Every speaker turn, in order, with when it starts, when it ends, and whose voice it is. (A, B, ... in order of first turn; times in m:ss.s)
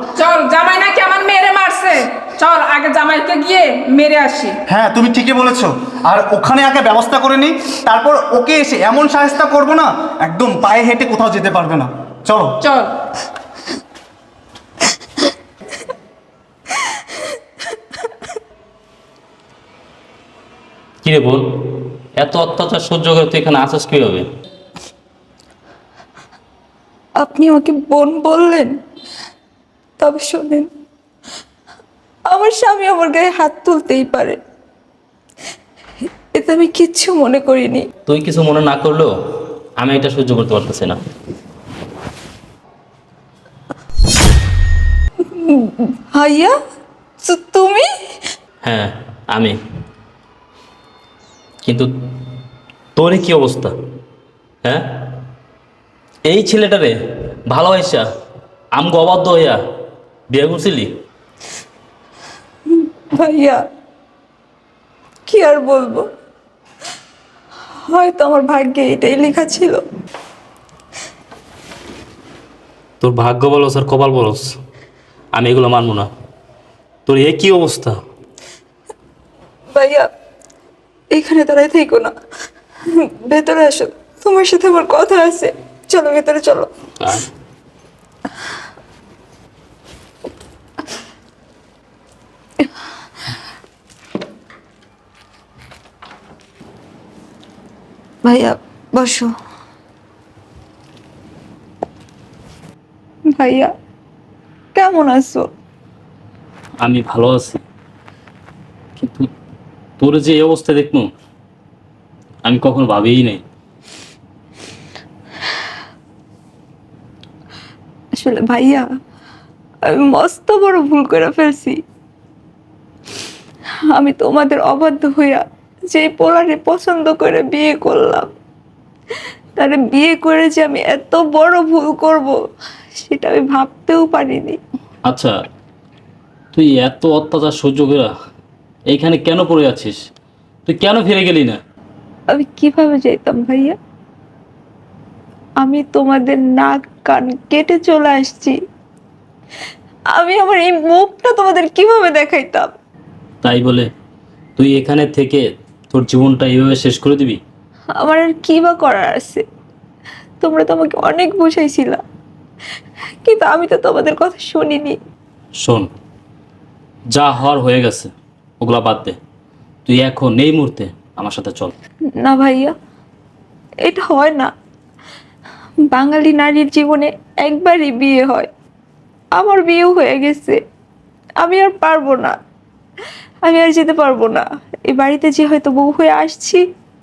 0:00.2-0:04.6 A
0:04.7-0:12.5 B
0:12.6-0:12.9 A
0:21.0-0:24.3 C
0:27.2-0:28.7 D
0:30.0-0:30.7 D
0:32.3-0:34.4 D
0:36.3-0:37.9 D
0:38.1-0:39.1 C
0:39.8-0:41.0 C
0:45.4-0:46.6 D
0:47.2-0:47.9 D
0:48.6-0:49.6 C
0:51.6-0:51.9 C
0:53.0-0:53.7 C
0:54.6-0:55.2 C
0:56.3-0:56.9 C
0:57.5-0:58.0 C
0:58.8-0:59.6 C
1:00.3-1:00.9 C
1:02.7-1:03.6 D
1:05.3-1:06.1 D
1:07.9-1:09.8 D
1:13.0-1:14.5 C
1:15.4-1:16.1 C
1:17.1-1:17.9 C
1:19.7-1:20.1 D
1:21.1-1:22.1 D
1:23.3-1:26.7 D
1:27.0-1:27.3 C
1:38.2-1:39.3 D
1:43.4-1:43.7 D
1:44.8-1:45.5 D
1:46.8-1:47.6 C
1:49.0-1:49.3 C
1:50.0-1:51.1 C
1:52.4-1:53.4 C
1:58.2-1:58.8 D
1:59.8-2:01.8 D
2:03.9-2:08.3 D
2:09.6-2:12.4 D
2:13.0-2:14.6 D
2:15.1-2:15.3 C
2:16.5-2:18.1 C
2:18.9-2:20.0 C
2:20.7-2:21.6 C
2:22.3-2:23.8 D
2:25.6-2:28.6 D
2:30.2-2:32.8 D
2:33.4-2:33.9 C
2:34.6-2:37.4 C
2:38.0-2:39.4 D
2:40.4-2:42.0 D
2:43.2-2:45.0 D
2:45.6-2:45.9 C
2:47.1-2:49.2 C
2:49.9-2:51.7 C
2:52.2-2:52.7 D
2:53.8-2:54.5 D
2:55.9-2:58.5 D
2:59.3-3:00.6 D
3:01.4-3:02.4 D
3:03.4-3:06.6 D